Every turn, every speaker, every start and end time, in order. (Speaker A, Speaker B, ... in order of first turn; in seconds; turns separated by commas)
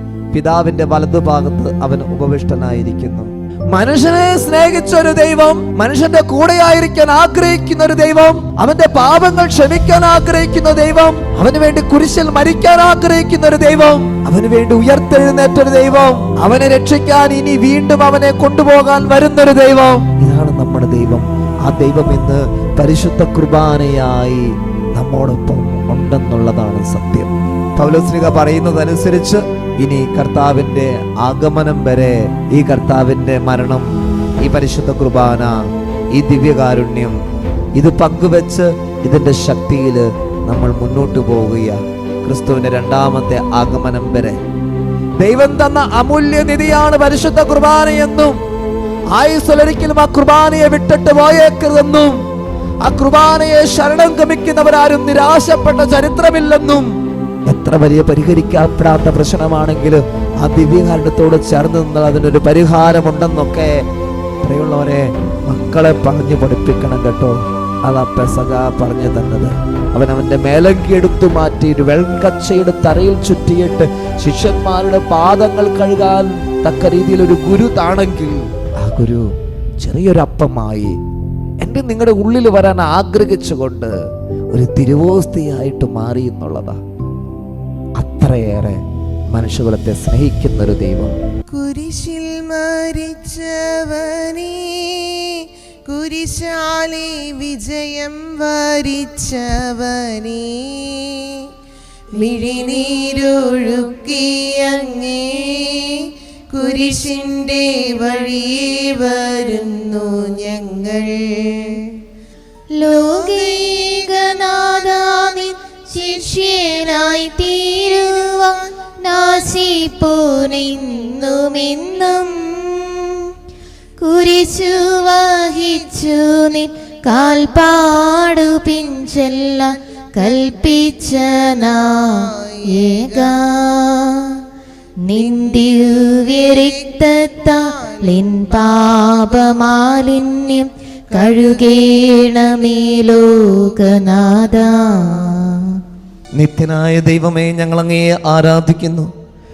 Speaker A: 0.3-33.9, Speaker A: 34.4-35.6, Speaker A: 36.1-37.2, Speaker A: 37.8-44.4, Speaker A: 45.2-48.4, Speaker A: 49.1-52.2, Speaker A: 52.8-56.9, Speaker A: 57.5-63.9, Speaker A: 64.4-79.3, Speaker A: 79.8-81.0, Speaker A: 81.6-84.0, Speaker A: 84.5-86.8, Speaker A: 88.0-88.8, Speaker A: 89.3-91.1, Speaker B: 91.5-101.5, Speaker B: 102.2-111.9, Speaker C: 112.8-122.9, Speaker C: 124.0-134.4, Speaker B: 132.2-133.3, Speaker C: 135.1-145.3, Speaker B: 136.2-137.2, Speaker B: 137.7-138.0, Speaker B: 141.1-141.6, Speaker A: 146.4-149.1